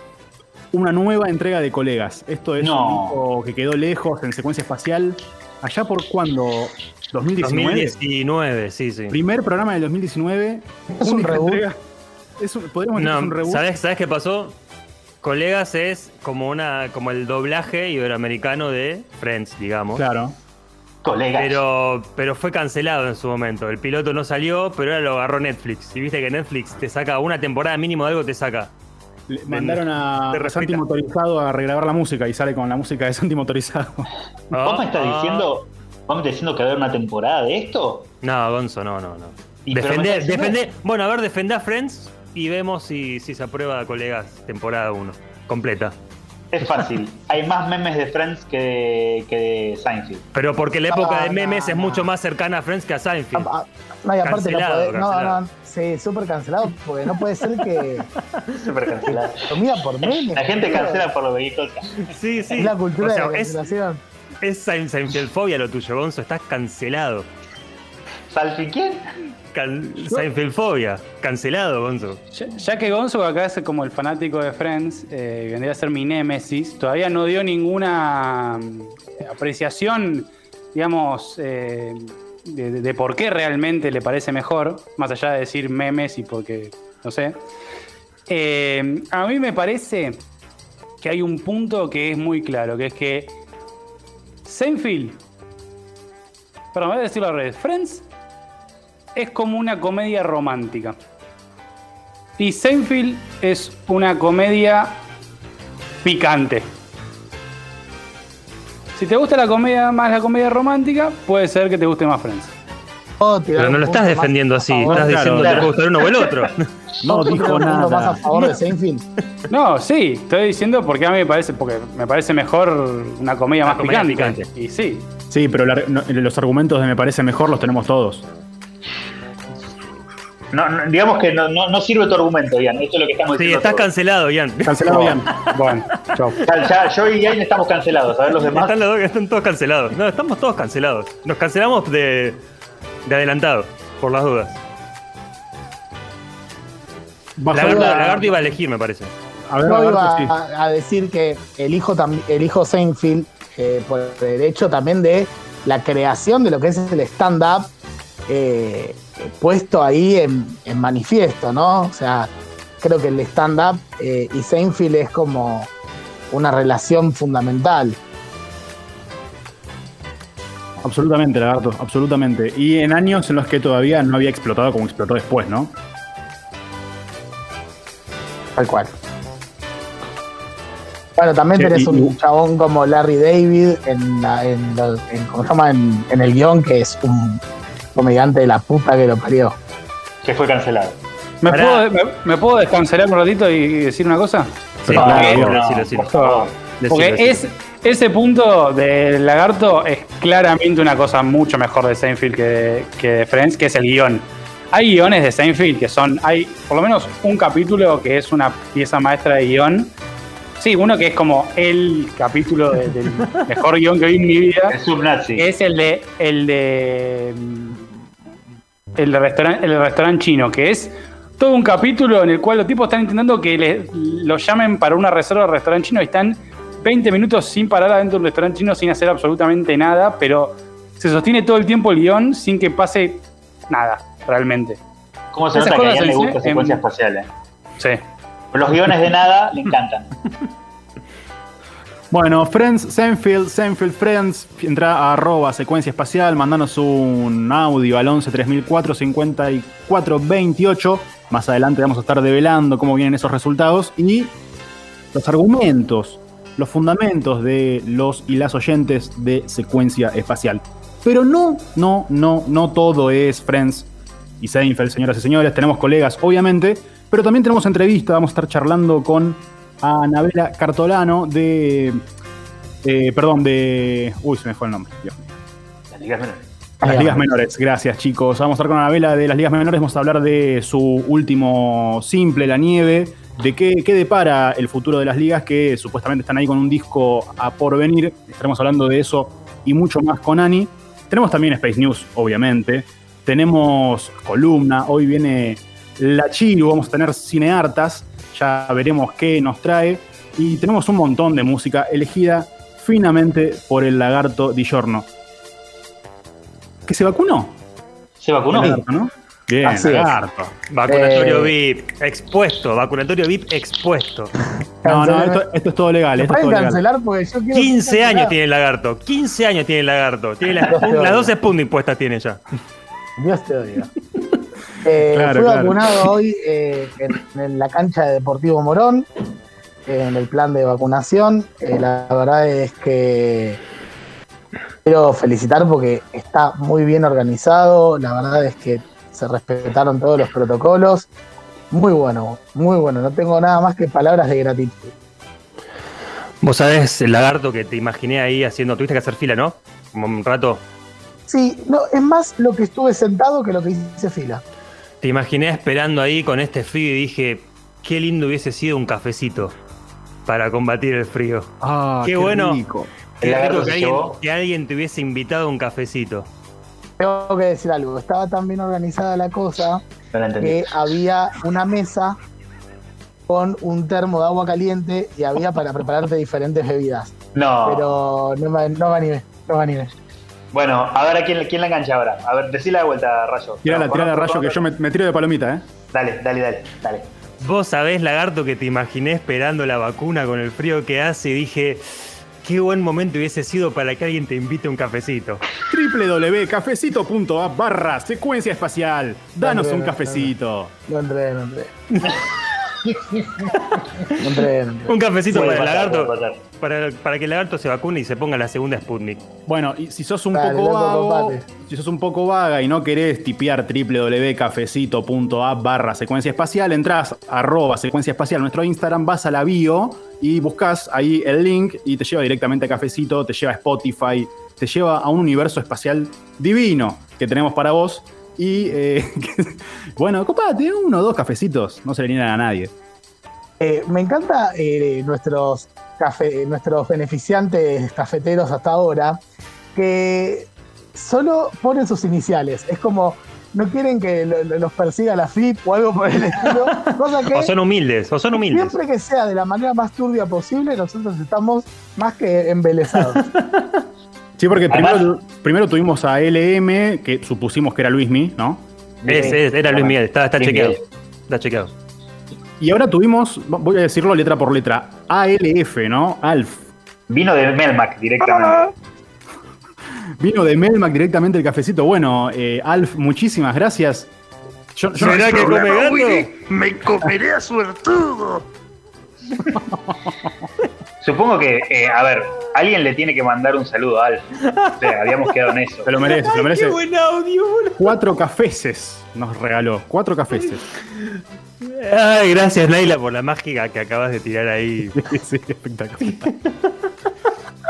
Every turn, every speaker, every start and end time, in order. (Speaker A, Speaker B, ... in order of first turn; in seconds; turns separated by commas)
Speaker A: 0.7-8.0, Speaker B: 2.6-3.2, Speaker C: 7.4-9.2, Speaker A: 9.1-11.8, Speaker D: 10.9-11.6, Speaker A: 12.4-13.7, Speaker C: 12.9-14.6, Speaker C: 15.2-20.0, Speaker A: 19.9-20.4, Speaker B: 21.0-21.6, Speaker C: 21.4-28.7, Speaker A: 29.3-34.1, Speaker C: 29.5-30.8, Speaker C: 34.5-35.5, Speaker B: 34.6-38.1, Speaker C: 38.2-46.0, Speaker B: 39.6-40.6, Speaker B: 46.5-50.2, Speaker C: 50.3-53.5, Speaker D: 50.9-52.1, Speaker D: 53.4-58.1, Speaker C: 54.2-55.4, Speaker B: 58.5-59.5, Speaker D: 59.5-61.1, Speaker B: 60.1-62.1, Speaker C: 62.0-63.7, Speaker D: 62.5-64.0, Speaker C: 64.4-67.3, Speaker B: 68.3-69.0, Speaker C: 69.5-72.2, Speaker E: 72.4-87.3, Speaker E: 88.3-90.2, Speaker E: 91.0-93.3, Speaker E: 94.5-95.2, Speaker E: 96.7-98.0, Speaker E: 99.2-101.0, Speaker E: 102.4-105.0, Speaker E: 106.0-106.7, Speaker E: 109.0-112.5, Speaker D: 113.2-115.1, Speaker C: 113.6-116.7, Speaker A: 114.9-115.7, Speaker B: 115.4-116.5, Speaker A: 117.0-118.2, Speaker B: 117.1-117.4, Speaker D: 117.2-119.0, Speaker E: 119.5-125.1, Speaker C: 123.6-124.5, Speaker A: 125.3-128.3, Speaker B: 130.5-133.9, Speaker C: 133.3-135.4, Speaker A: 134.6-135.3, Speaker E: 134.9-136.4, Speaker B: 136.4-138.8, Speaker C: 138.4-142.4, Speaker C: 143.1-144.6, Speaker A: 147.4-148.3, Speaker C: 147.5-149.1, Speaker D: 147.5-148.2, Speaker A: 149.5-150.4, Speaker D: 149.6-157.7, Speaker D: 158.3-165.7, Speaker D: 166.3-168.0, Speaker A: 170.8-175.8, Speaker D: 178.6-178.9, Speaker D: 181.2-187.4, Speaker A: 181.5-182.1, Speaker D: 187.9-189.6, Speaker B: 190.2-191.0, Speaker E: 191.4-194.5, Speaker C: 191.5-191.8, Speaker A: 194.8-195.6, Speaker C: 194.9-197.4, Speaker B: 194.9-196.5, Speaker E: 195.1-195.3, Speaker E: 196.2-209.9, Speaker E: 210.6-214.7, Speaker B: 214.7-215.5, Speaker E: 215.4-217.8, Speaker E: 219.0-234.8, Speaker B: 235.3-237.3, Speaker E: 235.6-236.8, Speaker B: 238.5-240.1, Speaker A: 242.1-254.3, Speaker A: 255.1-272.0, Speaker A: 272.8-275.3, Speaker B: 275.9-276.4, Speaker A: 276.8-305.1, Speaker D: 276.8-277.4, Speaker A: 306.9-307.6, Speaker B: 308.2-308.8, Speaker A: 308.5-310.6, Speaker D: 309.6-310.2, Speaker C: 310.7-314.3, Speaker D: 310.9-311.5, Speaker A: 314.8-316.8, Speaker D: 314.8-315.4, Speaker D: 316.2-318.4, Speaker C: 317.5-322.4, Speaker D: 320.7-321.3, Speaker D: 323.2-323.9, Speaker D: 324.8-329.1, Speaker A: 325.1-325.9, Speaker D: 329.9-333.6, Speaker D: 334.9-341.1, Speaker D: 341.7-344.9, Speaker C: 346.4-350.6, Speaker D: 351.3-354.4, Speaker C: 355.0-359.6, Speaker C: 360.3-361.5, Speaker A: 361.6-362.9, Speaker C: 362.0-362.6, Speaker B: 363.2-364.2, Speaker C: 363.2-366.3, Speaker D: 367.0-369.8, Speaker B: 370.1-370.7, Speaker D: 370.4-372.2, Speaker D: 373.3-379.9, Speaker B: 377.3-377.9, Speaker B: 380.5-384.6, Speaker A: 383.6-385.7, Speaker B: 385.9-387.1, Speaker C: 387.4-395.4, Speaker A: 395.7-400.7, Speaker D: 399.4-400.3, Speaker D: 400.9-401.7, Speaker B: 402.9-403.2, Speaker C: 403.5-409.2, Speaker D: 404.2-405.0, Speaker B: 405.3-406.4, Speaker A: 409.5-432.7, Speaker D: 410.3-411.4, Speaker D: 433.6-439.2, Speaker D: 439.8-447.5, Speaker C: 447.3-448.8, Speaker D: 448.4-453.3, Speaker A: 454.4-458.7, Speaker B: 454.7-455.1, Speaker B: 459.0-460.8, Speaker C: 459.1-461.7, Speaker A: 462.6-466.7, Speaker B: 467.1-468.7, Speaker A: 470.2-474.1, Speaker A: 474.8-475.8, Speaker C: 475.0-478.4, Speaker A: 476.7-477.1, Speaker B: 481.0-484.2, Speaker C: 484.5-485.4, Speaker B: 484.8-485.9, Speaker A: 485.9-486.8, Speaker C: 486.0-488.0, Speaker A: 487.8-490.7, Speaker C: 490.9-495.0, Speaker A: 494.9-496.3, Speaker C: 496.0-496.7